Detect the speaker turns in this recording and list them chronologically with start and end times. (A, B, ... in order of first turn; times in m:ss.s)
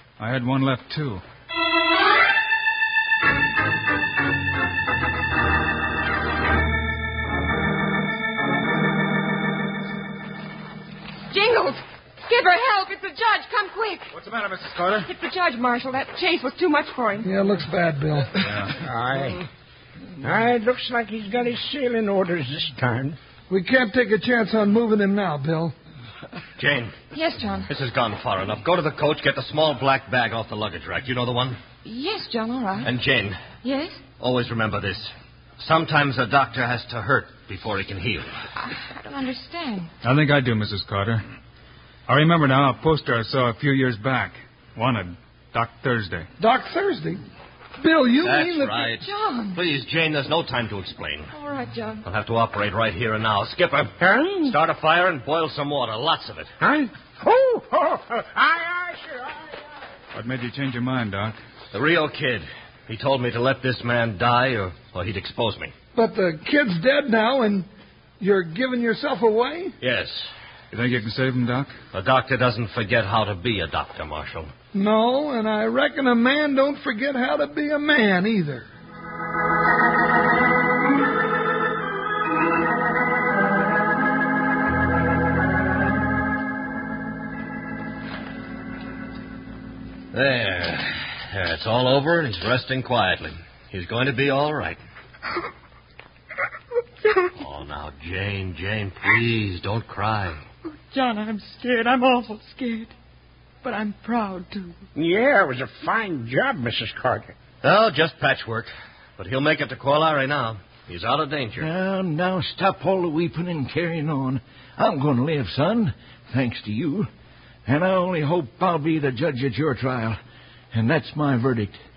0:00.2-0:01.2 A
0:11.3-0:14.1 B
0:14.1-0:15.1 A
0:15.0-0:17.3 B
0:17.2-0:18.4 C
0:18.4-0:18.7 A
0:18.8-0:19.4 D
0:20.2-0:23.2 D
0:23.5-0:25.7 C
0:26.6-0:27.0 E
0:27.1-0:27.7 B
0:27.7-0:31.6 E
0:31.8-0:32.9 B
0:32.8-0:33.4 E
0:33.6-0:34.0 B
0:34.2-0:38.3 E
0:38.6-0:39.9 B
0:40.0-0:41.2 A
0:42.1-0:46.2 A
0:46.4-0:47.2 C
0:47.8-0:48.9 C
0:48.2-0:51.3 E
0:48.9-0:49.6 B
0:51.3-0:52.0 B
0:52.0-0:56.5 E
0:54.0-0:54.6 D
0:56.6-0:59.6 D
1:00.1-1:01.4 A
1:01.7-1:05.7 E
1:05.9-1:07.7 C
1:08.2-1:09.8 C
1:09.8-1:10.3 E
1:10.7-1:11.7 A
1:11.9-1:14.5 E
1:14.7-1:18.7 C
1:30.1-1:34.8 E
1:37.4-1:40.4 E
1:40.6-1:42.9 B
1:43.6-1:44.8 B
1:44.9-1:47.3 D
1:47.6-1:51.7 E
1:51.6-1:57.1 F
1:57.6-2:00.2 F
2:00.7-2:01.8 F